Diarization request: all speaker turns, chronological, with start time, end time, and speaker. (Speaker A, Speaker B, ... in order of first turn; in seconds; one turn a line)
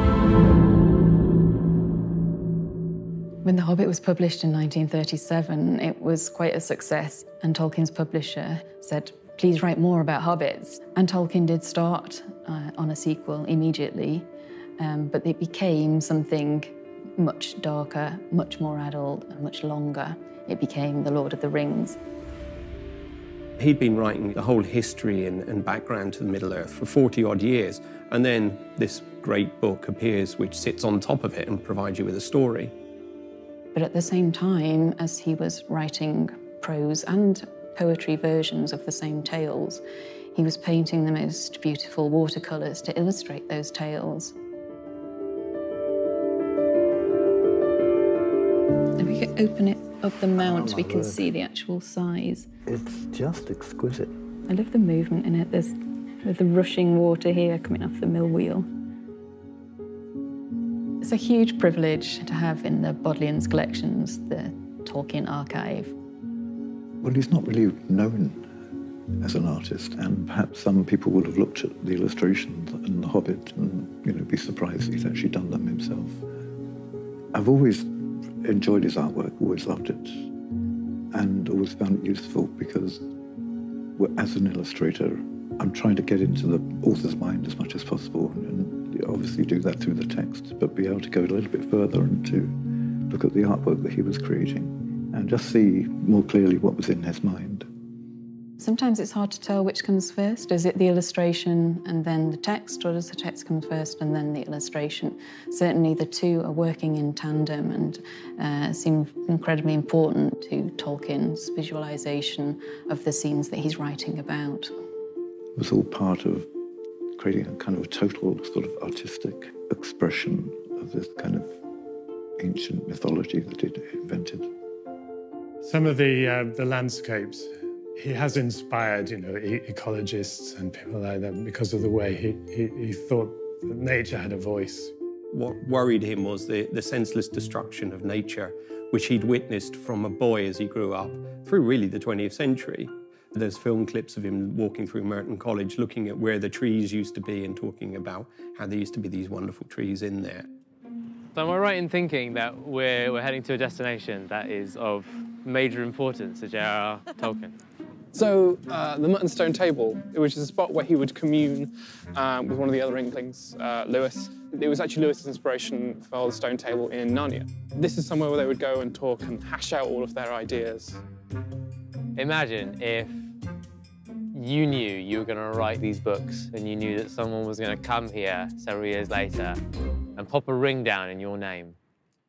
Speaker A: 3.4-14.3
Speaker A: 14.8-22.0
Speaker B: 23.6-32.7
Speaker A: 33.7-39.8
Speaker A: 40.4-44.4
Speaker A: 49.0-52.5
Speaker C: 50.4-51.2
Speaker C: 52.7-54.1
Speaker A: 54.5-58.7
Speaker A: 61.0-65.9
Speaker C: 67.0-68.5
Speaker C: 69.2-76.2
Speaker C: 77.3-77.9
Speaker C: 78.4-80.3
Speaker C: 81.1-83.1
Speaker C: 84.0-92.5
Speaker C: 93.1-97.7
Speaker A: 98.6-114.7
Speaker C: 115.6-116.5
Speaker C: 117.2-121.6
Speaker C: 122.4-124.5
Speaker D: 125.6-134.9
Speaker B: 135.3-150.5
Speaker E: 151.3-157.6
Speaker F: 158.1-171.0
Speaker E: 172.2-173.1
Speaker E: 174.3-179.6
Speaker E: 180.2-181.8